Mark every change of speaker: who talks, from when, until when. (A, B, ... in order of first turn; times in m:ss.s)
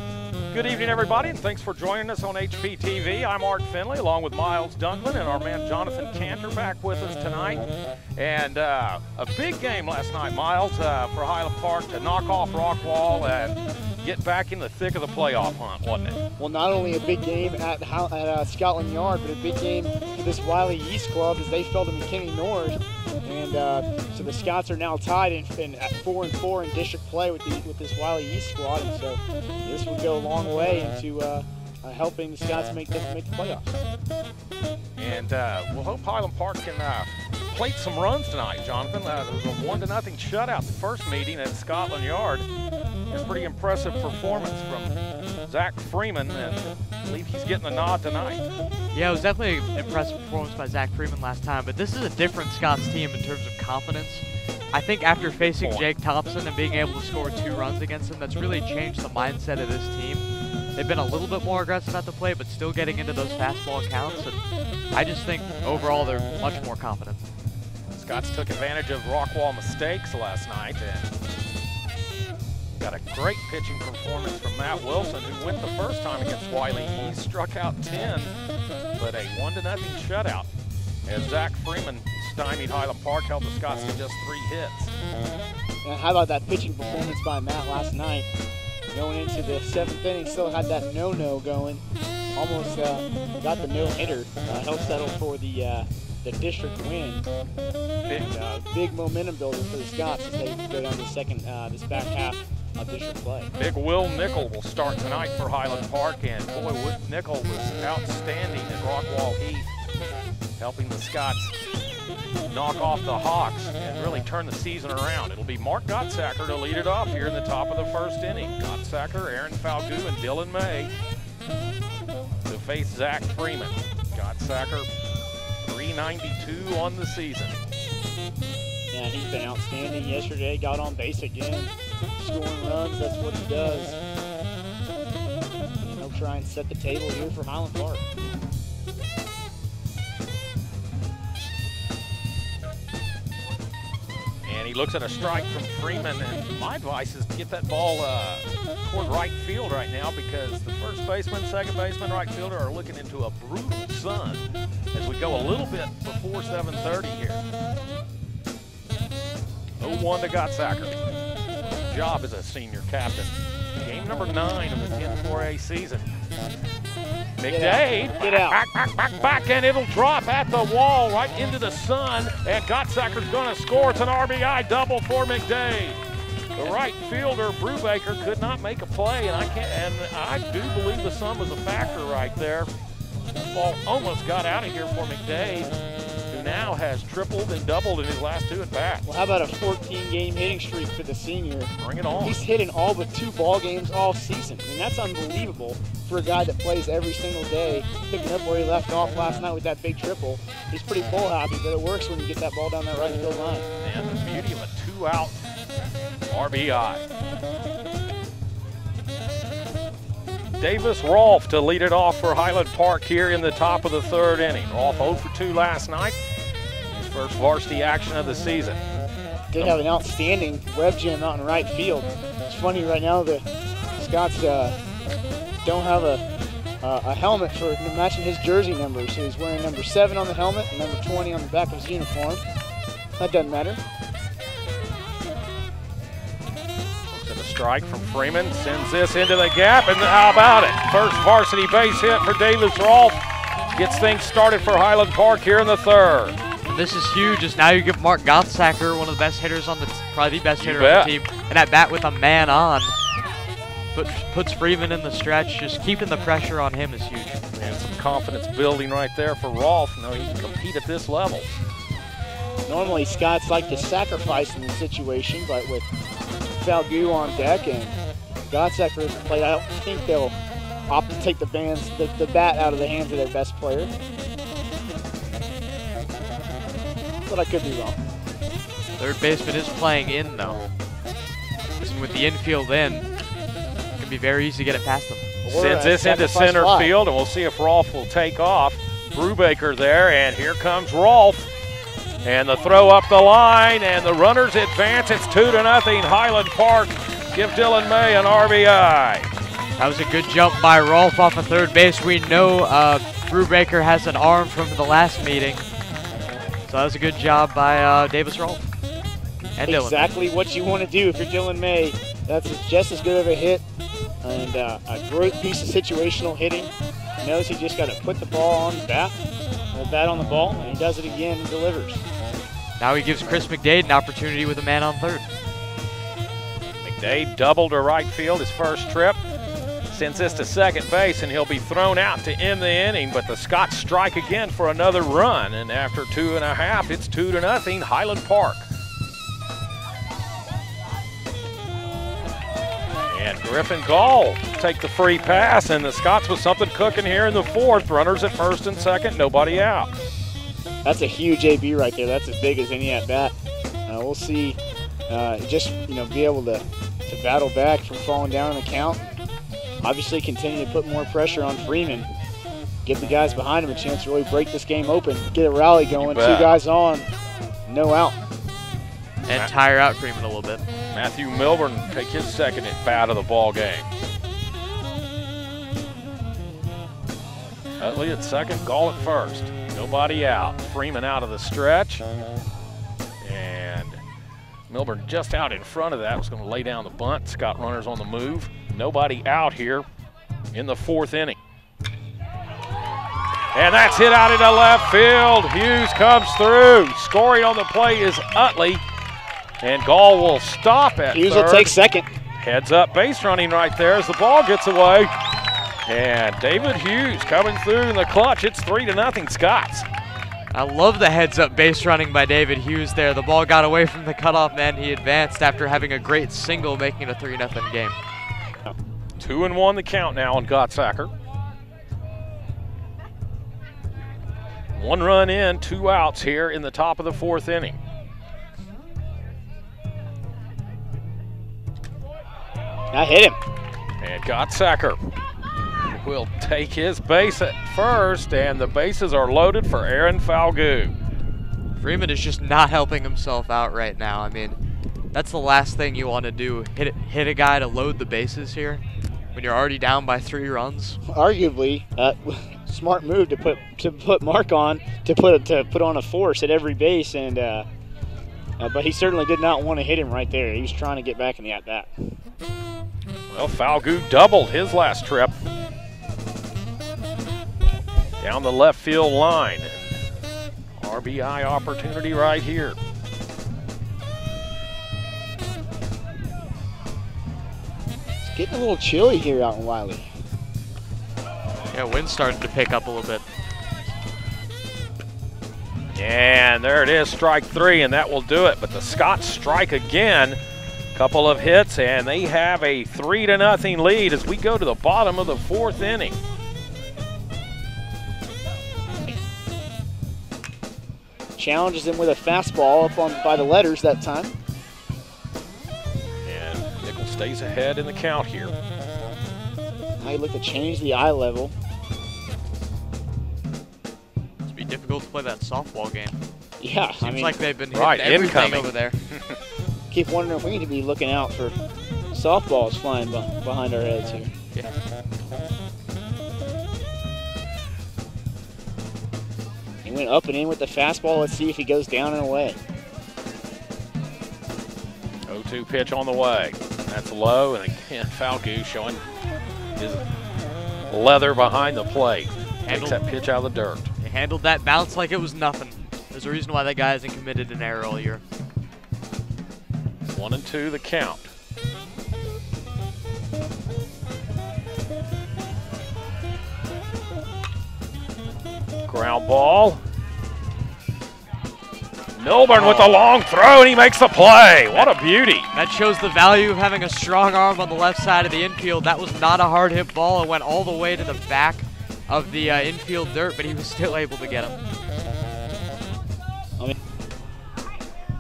0:00.5-0:16.2 A
0:16.4-0:33.8 B
0:35.0-0:42.5 A
0:43.1-0:45.0 A
0:45.5-0:48.4 A
0:48.9-1:07.2 C
0:55.4-0:55.9 A
1:07.9-1:11.1 A
1:12.8-1:18.3 A
1:19.0-1:20.5 A
1:21.1-1:24.9 A
1:25.8-1:28.3 B
1:28.9-1:31.8 B
1:32.4-1:37.3 B
1:38.1-1:43.5 B
1:43.6-1:49.7 A
1:50.6-1:51.5 A
1:52.5-2:00.9 A
2:02.4-2:04.9 A
2:05.6-2:07.6 A
2:08.9-2:14.0 B
2:15.8-2:18.0 B
2:24.4-2:37.4 A
2:39.8-2:41.0 A
2:41.7-2:46.1 A
2:47.4-2:56.0 A
2:47.5-2:48.6 B
2:56.6-3:02.7 A
3:03.4-3:05.8 A
3:06.3-3:09.1 A
3:09.1-3:23.7 B
3:11.8-3:12.4 A
3:23.8-3:25.4 A
3:26.3-3:27.1 A
3:30.6-3:36.2 A
3:36.9-3:38.8 A
3:39.5-3:43.4 B
3:44.0-3:44.8 B
3:45.6-3:46.2 B
3:46.8-3:52.4 B
3:53.2-3:53.8 B
3:57.1-4:03.2 A
4:03.7-4:06.4 A
4:06.7-4:13.0 C
4:10.6-4:11.1 A
4:13.9-4:17.4 C
4:17.6-4:21.5 A
4:22.7-4:25.9 B
4:26.6-4:28.0 B
4:28.5-4:30.4 B
4:30.9-4:33.9 B
4:37.3-4:38.0 B
4:39.0-4:40.6 C
4:41.8-4:43.1 C
4:44.0-4:45.3 C
4:45.4-4:46.9 B
4:45.5-4:51.5 A
4:52.2-4:59.3 A
4:59.8-5:05.7 C
5:06.7-5:08.7 C
5:09.6-5:10.1 C
5:09.6-5:13.6 B
5:14.2-5:19.2 B
5:19.7-5:22.0 B
5:22.8-5:25.2 C
5:26.8-5:29.2 A
5:29.9-5:38.7 A
5:43.1-5:49.9 A
5:50.8-5:53.4 B
5:53.9-5:59.1 B
5:59.8-6:02.1 B
6:02.8-6:07.1 B
6:06.0-6:06.5 A
6:07.7-6:08.2 B
6:09.2-6:10.6 C
6:10.9-6:13.9 A
6:17.8-6:22.0 A
6:23.2-6:24.0 A
6:24.7-6:29.9 A
6:30.5-6:31.4 A
6:33.5-6:38.8 A
6:39.6-6:41.8 A
6:41.1-6:42.2 B
6:42.4-6:45.1 A
6:45.8-6:49.9 A
6:50.5-6:58.0 C
6:59.2-7:01.1 A
7:04.8-7:07.8 A
7:12.9-7:13.4 B
7:14.0-7:15.0 A
7:15.8-7:20.9 A
7:21.8-7:24.6 C
7:25.1-7:28.8 C
7:29.3-7:31.0 C
7:31.1-7:37.7 B
7:38.6-7:41.9 B
7:43.3-7:45.4 A
7:48.2-7:50.0 A
7:50.8-7:52.8 A
7:58.2-8:00.1 B
8:01.7-8:03.2 C
8:06.0-8:10.4 A
8:10.9-8:16.2 A
8:21.4-8:24.3 B
8:26.2-8:28.5 A
8:30.0-8:31.6 B
8:34.4-8:36.2 C
8:36.6-8:37.4 B
8:37.0-8:39.0 C
8:37.7-8:39.4 A
8:39.9-8:41.6 B
8:42.1-8:44.3 B
8:49.8-8:52.6 B
8:55.3-8:59.0 A
8:59.8-9:00.0 A
9:00.9-9:03.9 A
9:02.7-9:03.0 C
9:04.0-9:08.2 C
9:10.0-9:11.3 A
9:18.9-9:19.8 A
9:22.2-9:25.5 A
9:22.5-9:23.0 C
9:25.5-9:34.6 C